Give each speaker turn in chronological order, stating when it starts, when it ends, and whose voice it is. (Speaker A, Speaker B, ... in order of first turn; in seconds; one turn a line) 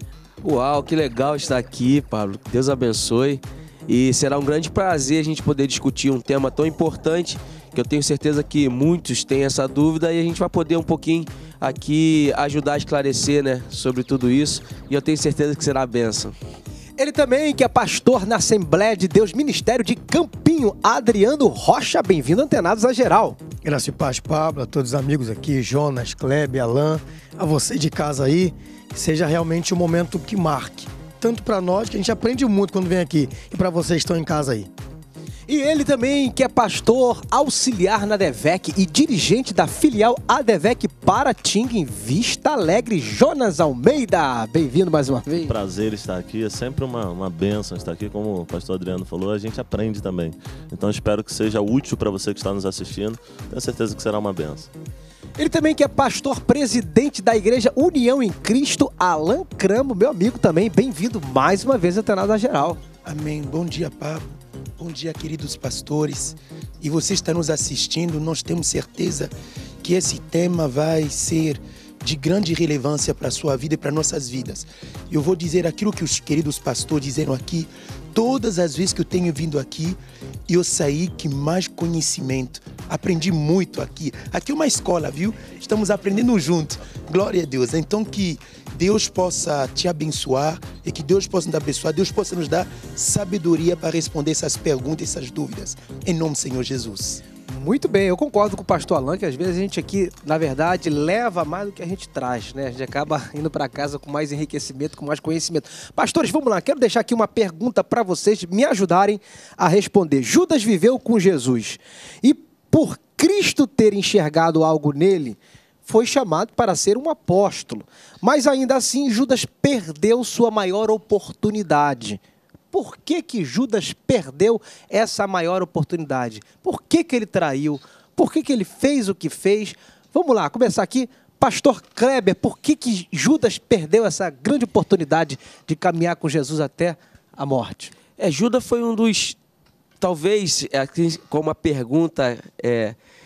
Speaker A: 0.4-16.3
Speaker B: 17.0-23.4
Speaker C: 23.6-34.7
Speaker B: 35.5-45.5
Speaker D: 45.5-54.7
Speaker B: 55.4-62.8
Speaker E: 63.0-64.2
Speaker E: 64.8-69.3
Speaker E: 69.8-80.0
Speaker E: 80.5-97.2
Speaker B: 97.5-122.2
Speaker B: 122.7-137.9
Speaker A: 138.2-139.4
Speaker A: 140.0-142.9